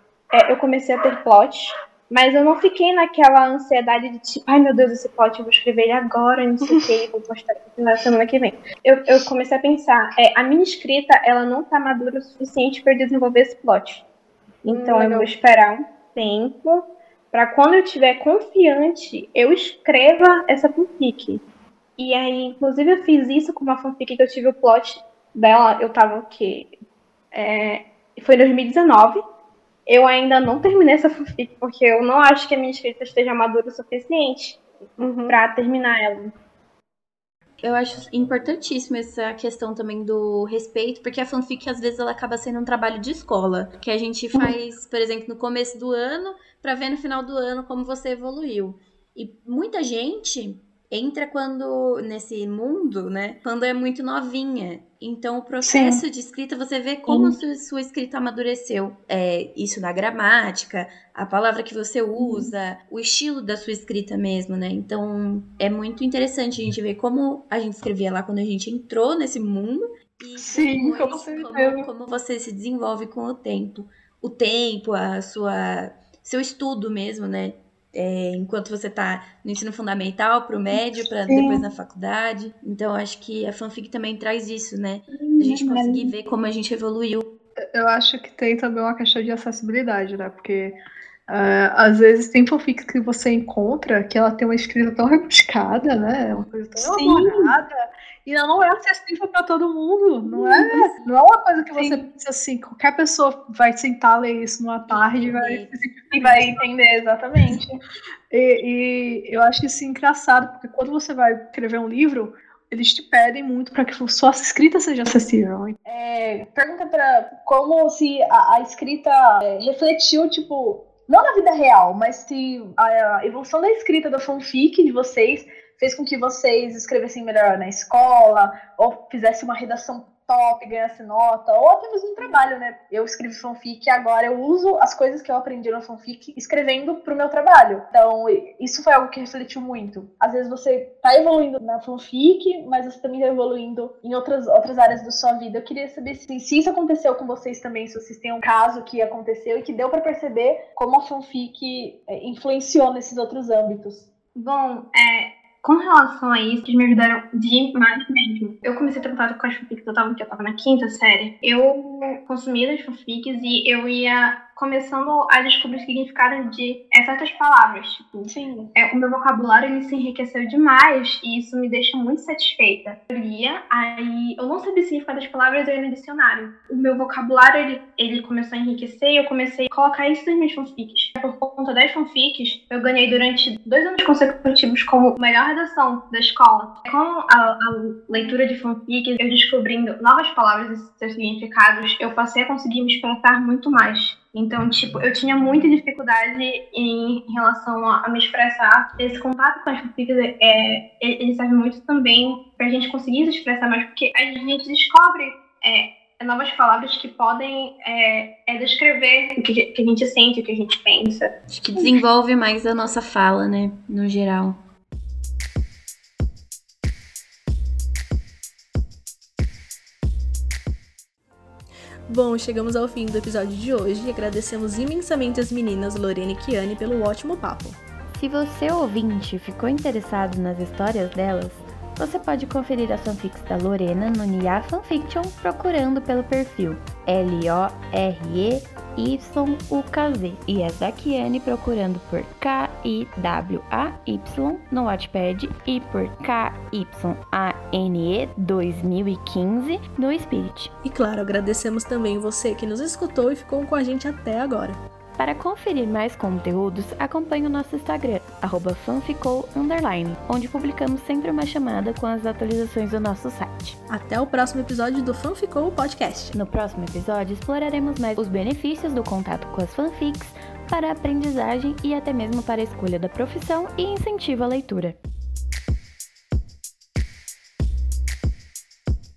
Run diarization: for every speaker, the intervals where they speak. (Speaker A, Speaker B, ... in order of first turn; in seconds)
Speaker A: 0.3-14.0, 14.6-21.4, 22.0-26.7, 27.3-29.2, 29.9-34.6, 35.3-36.3, 154.3-211.9
Speaker B: 14.7-15.3, 35.0-35.4, 55.6-56.0, 57.0-57.4, 62.1-62.5, 70.4-71.9, 80.7-81.7, 85.3-86.0, 96.8-97.5, 100.2-102.0, 106.1-107.8, 115.8-154.0, 168.3-168.7
Speaker C: 37.6-87.2, 104.9-105.7, 211.5-214.6, 228.1-250.7, 255.2-263.8, 266.3-275.0
Speaker D: 87.7-90.8, 91.3-101.0, 101.5-106.5, 108.3-115.8
Speaker E: 222.1-227.8, 250.8-254.8, 263.9-266.3